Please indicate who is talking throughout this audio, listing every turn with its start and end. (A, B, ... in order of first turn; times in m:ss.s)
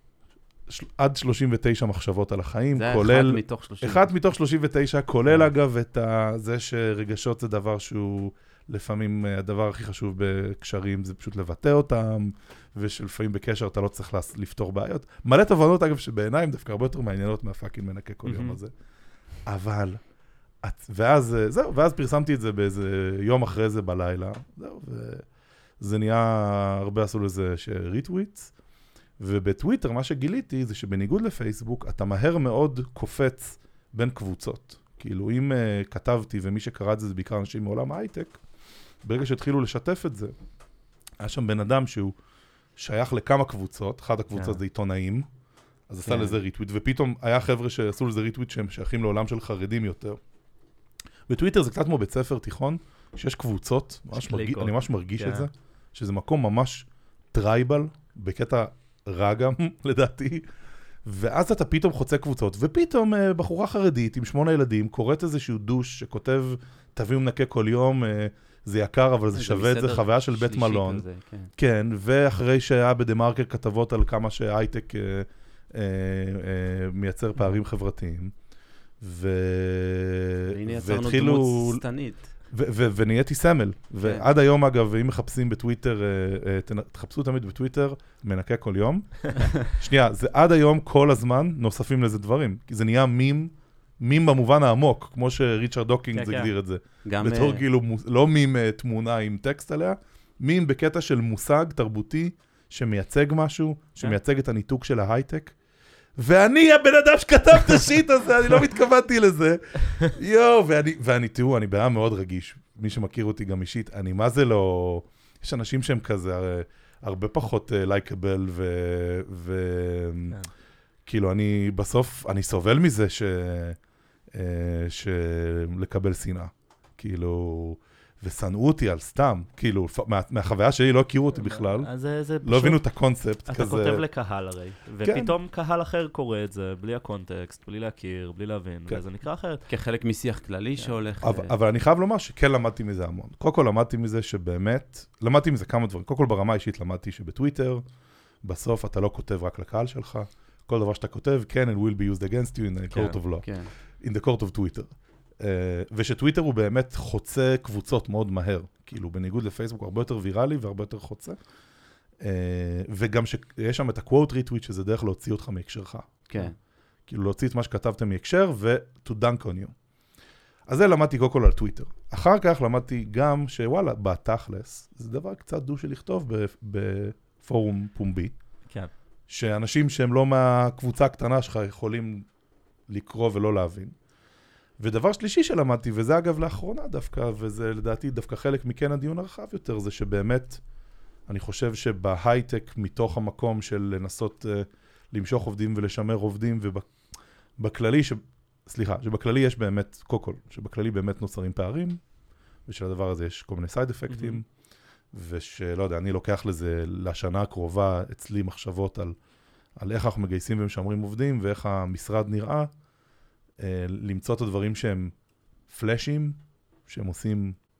0:00.7-0:18.7 A
0:02.7-0:04.1 B
0:18.2-0:18.6 C
0:19.4-0:20.0 A
0:20.6-0:25.2 A
0:25.8-0:28.5 A
0:29.2-0:38.4 A
0:39.0-0:40.3 A
0:41.2-0:42.2 A
0:42.8-0:45.2 A
0:44.3-0:44.6 C
0:45.9-0:50.2 A
0:46.0-0:46.4 B
0:51.3-1:00.4 A
0:54.1-0:55.5 C
1:01.0-1:11.0 A
1:09.3-1:11.5 B
1:11.6-1:18.3 A
1:19.0-1:21.8 A
1:20.5-1:22.3 B
1:22.5-1:45.6 A
1:24.0-1:24.3 B
1:36.1-1:36.5 C
1:37.0-1:37.6 B
1:46.2-2:00.4 A
2:01.0-2:03.8 A
2:04.3-2:11.9 A
2:11.3-2:12.8 C
2:12.4-2:14.0 A
2:13.5-2:19.6 C
2:15.0-2:15.3 A
2:19.7-2:21.5 B
2:21.2-2:27.8 A
2:28.4-2:41.4 A
2:32.9-2:33.2 C
2:33.4-2:33.7 B
2:42.2-2:46.5 A
2:47.1-2:49.7 A
2:50.7-2:58.4 A
2:59.3-3:02.3 A
3:02.9-3:03.9 A
3:04.8-3:10.6 A
3:11.3-3:16.9 A
3:17.6-3:22.0 A
3:22.6-3:24.4 A
3:24.1-3:24.4 C
3:25.1-3:29.1 A
3:29.8-3:32.7 A
3:33.6-3:35.1 A
3:35.7-3:37.6 A